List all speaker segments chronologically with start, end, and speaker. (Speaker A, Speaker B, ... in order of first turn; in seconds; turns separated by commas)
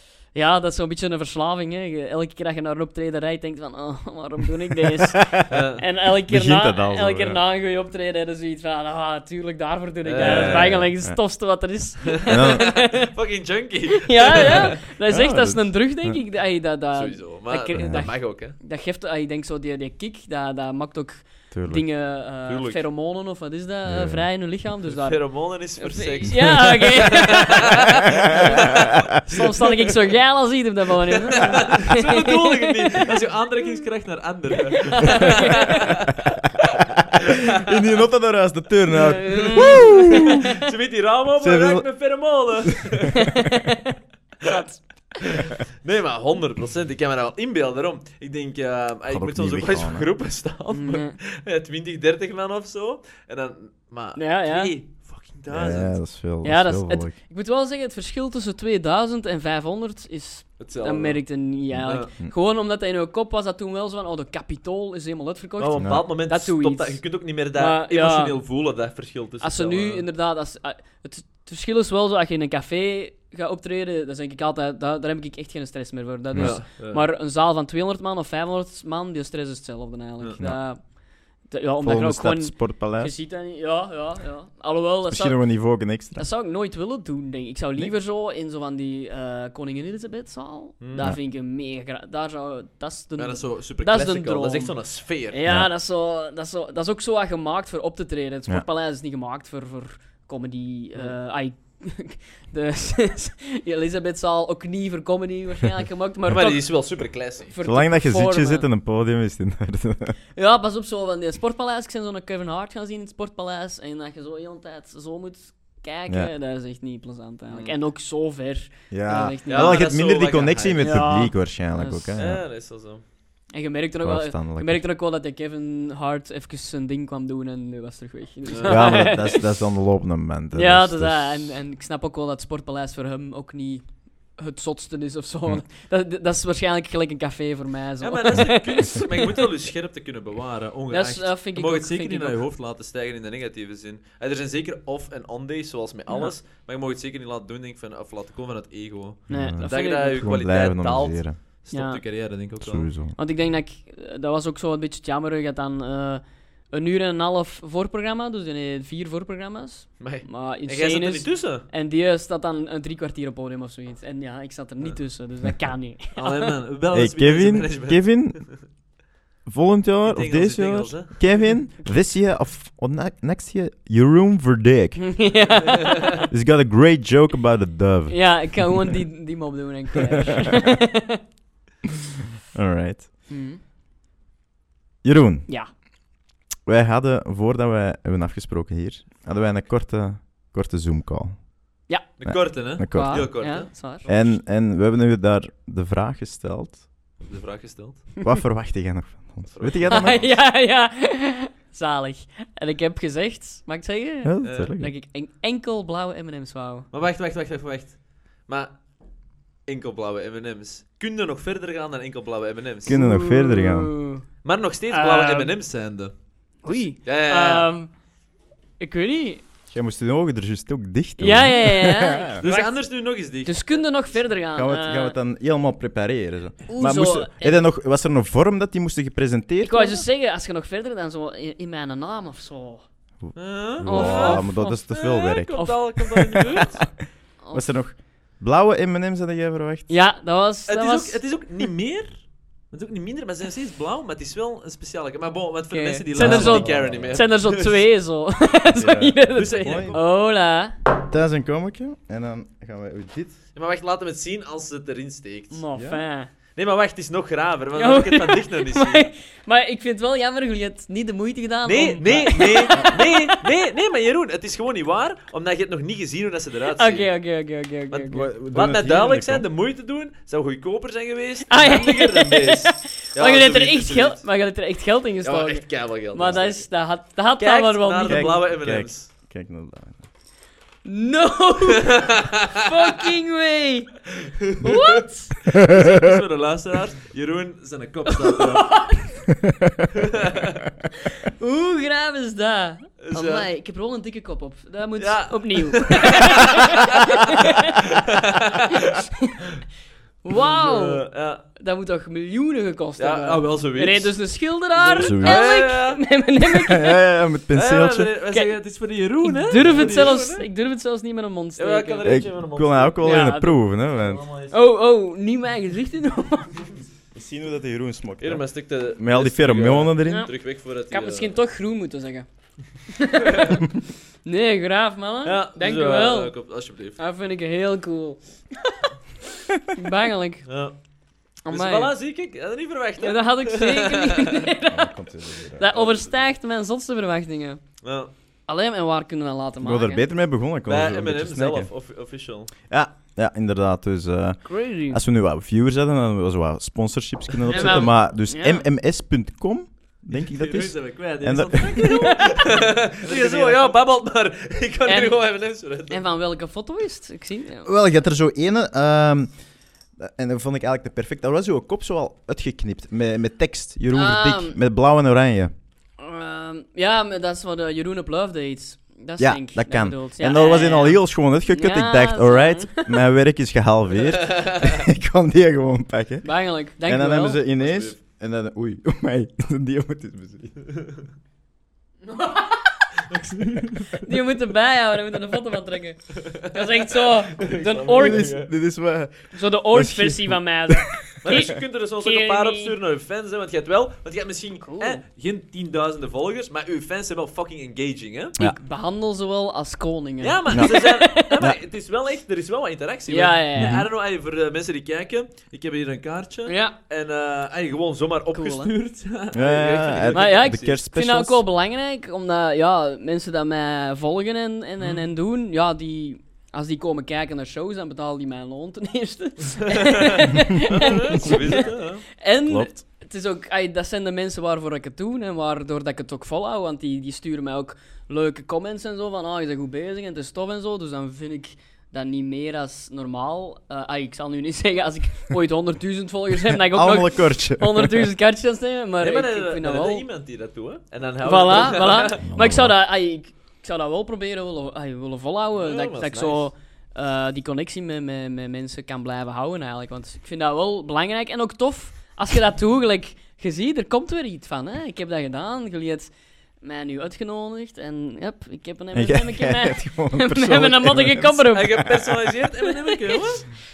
Speaker A: 0.3-13.1, Speaker B: 5.5-5.8, Speaker C: 6.2-7.4, Speaker B: 10.1-10.9, Speaker C: 10.2-11.2, Speaker B: 12.2-14.8, Speaker C: 12.3-12.7, Speaker A: 14.0-33.1, Speaker C: 15.1-16.2, Speaker B: 17.0-18.6, Speaker C: 17.8-18.1, Speaker C: 21.5-21.8, Speaker B: 22.5-22.8, Speaker C: 23.9-24.3, Speaker B: 24.9-29.8, Speaker C: 26.4-26.6, Speaker B: 31.1-38.0, Speaker A: 34.9-35.9, Speaker C: 37.1-40.5, Speaker A: 38.9-40.6, Speaker B: 39.3-43.2, Speaker C: 41.4-41.9, Speaker A: 43.2-45.4, Speaker B: 45.3-56.0, Speaker C: 49.1-50.1, Speaker A: 50.7-51.2, Speaker A: 54.2-54.8, Speaker C: 55.5-57.1, Speaker A: 56.4-68.4, Speaker B: 60.6-61.2, Speaker B: 61.7-62.1, Speaker B: 65.6-70.1, Speaker C: 65.8-66.0, Speaker A: 69.4-85.5, Speaker C: 76.3-76.6, Speaker B: 76.4-77.1, Speaker C: 81.8-83.1, Speaker C: 85.1-86.2, Speaker A: 86.2-108.7, Speaker B: 90.8-91.1, Speaker B: 93.2-95.4, Speaker C: 95.5-95.7, Speaker B: 106.3-107.5, Speaker C: 107.6-110.2, Speaker A: 110.4-120.0, Speaker B: 117.5-117.8, Speaker C: 118.9-122.4, Speaker B: 119.5-121.0, Speaker A: 120.8-122.2, Speaker B: 122.2-123.0, Speaker A: 123.5-129.4, Speaker C: 124.0-124.8, Speaker B: 128.5-129.1, Speaker C: 128.7-131.5, Speaker A: 130.5-139.4, Speaker B: 138.0-152.9, Speaker A: 140.9-142.4, Speaker C: 149.3-151.4, Speaker A: 149.3-150.3, Speaker A: 151.7-152.0, Speaker C: 152.6-153.2, Speaker A: 153.2-166.5, Speaker B: 160.0-161.7, Speaker B: 166.2-168.6, Speaker C: 166.9-168.5, Speaker C: 169.5-175.2, Speaker B: 170.1-171.2, Speaker A: 175.0-176.3, Speaker C: 176.2-179.0, Speaker A: 178.1-181.2, Speaker C: 182.5-183.1, Speaker A: 183.3-183.6, Speaker C: 185.0-185.5, Speaker C: 186.7-191.4, Speaker B: 192.2-194.2, Speaker C: 192.2-196.8, Speaker A: 192.8-194.3, Speaker B: 197.2-198.1, Speaker C: 198.2-200.2, Speaker B: 199.5-200.3, Speaker A: 199.9-206.9, Speaker C: 204.2-204.9, Speaker B: 204.4-204.7, Speaker B: 206.9-208.8, Speaker B: 209.7-213.0, Speaker C: 212.8-213.9, Speaker A: 212.9-214.2, Speaker B: 214.4-216.1, Speaker A: 214.9-215.5, Speaker A: 216.6-217.9, Speaker B: 216.7-217.7, Speaker A: 218.8-219.4, Speaker C: 219.7-222.4, Speaker A: 221.2-222.9, Speaker B: 222.4-223.7, Speaker A: 223.4-225.2, Speaker C: 224.6-230.1, Speaker A: 226.7-227.6, Speaker A: 229.6-232.8, Speaker C: 233.2-235.7, Speaker B: 233.3-236.8, Speaker A: 233.9-234.8, Speaker A: 235.6-236.8, Speaker A: 237.4-237.7, Speaker C: 237.5-239.9, Speaker A: 239.9-241.3, Speaker B: 240.7-247.8, Speaker A: 245.7-250.8, Speaker C: 246.1-247.2, Speaker C: 248.8-250.0, Speaker B: 249.3-250.0, Speaker C: 251.1-253.4, Speaker B: 253.6-255.6, Speaker A: 255.5-256.3, Speaker C: 255.8-256.0, Speaker B: 256.6-259.1, Speaker A: 257.8-263.4, Speaker B: 261.7-267.1, Speaker A: 266.7-268.3, Speaker B: 267.9-274.2, Speaker C: 268.1-269.5, Speaker A: 271.5-278.5, Speaker B: 275.2-276.7, Speaker B: 277.4-279.1, Speaker C: 278.1-280.0, Speaker A: 280.9-284.0, Speaker B: 281.7-282.7, Speaker B: 284.4-289.1, Speaker A: 284.6-285.4, Speaker C: 285.6-285.9, Speaker A: 288.1-289.1, Speaker C: 289.5-289.9, Speaker B: 290.0-290.6, Speaker A: 291.0-297.9, Speaker B: 293.0-293.5, Speaker B: 295.0-297.0, Speaker B: 297.9-299.0, Speaker A: 298.7-299.4, Speaker A: 300.2-307.0, Speaker B: 300.4-301.4, Speaker B: 303.0-306.0, Speaker C: 305.0-305.4, Speaker C: 306.5-308.1, Speaker B: 307.5-310.5, Speaker A: 309.2-312.1, Speaker C: 309.6-310.1, Speaker B: 311.6-313.1, Speaker C: 312.0-314.2, Speaker A: 313.0-313.6, Speaker B: 314.0-314.5, Speaker A: 314.5-316.7, Speaker C: 317.1-318.4, Speaker B: 318.2-321.3, Speaker C: 319.0-320.3, Speaker A: 320.0-320.3, Speaker A: 320.9-322.3, Speaker A: 322.9-323.7, Speaker B: 323.3-323.6, Speaker A: 324.2-326.3, Speaker B: 325.2-327.0, Speaker A: 327.0-328.9, Speaker A: 329.7-330.4, Speaker B: 330.5-330.8, Speaker A: 331.4-331.9, Speaker B: 331.5-334.5, Speaker A: 333.0-337.6, Speaker C: 334.7-335.7, Speaker B: 335.7-336.1, Speaker B: 337.8-338.1, Speaker A: 338.5-340.0, Speaker C: 339.6-341.7, Speaker B: 340.7-342.5, Speaker C: 342.7-352.2, Speaker A: 344.4-345.0, Speaker A: 347.5-348.6, Speaker B: 347.5-347.9, Speaker B: 350.1-356.0, Speaker A: 351.9-352.6, Speaker C: 353.1-353.7, Speaker A: 354.9-357.7, Speaker C: 357.6-359.3, Speaker C: 360.0-365.5, Speaker A: 363.9-364.6, Speaker A: 366.0-373.0, Speaker C: 369.2-380.6, Speaker B: 374.2-374.8, Speaker A: 376.2-377.4, Speaker B: 377.6-378.0, Speaker A: 382.0-382.9, Speaker B: 383.1-383.8, Speaker A: 383.9-388.4, Speaker B: 386.2-388.5, Speaker C: 387.9-391.5, Speaker A: 389.3-392.8, Speaker B: 391.2-398.4, Speaker A: 394.6-395.0, Speaker A: 398.4-401.4, Speaker B: 400.2-410.8, Speaker C: 400.5-400.8, Speaker A: 403.1-403.8, Speaker C: 403.6-403.9, Speaker A: 406.5-406.8, Speaker A: 408.3-408.7, Speaker C: 409.3-411.4, Speaker A: 410.1-440.1, Speaker B: 419.7-422.1, Speaker C: 422.5-422.7, Speaker C: 436.5-438.1, Speaker B: 439.0-442.2, Speaker A: 441.2-462.0, Speaker C: 442.2-442.7, Speaker B: 445.6-446.5, Speaker C: 458.9-462.3, Speaker B: 461.5-463.6, Speaker A: 462.6-463.4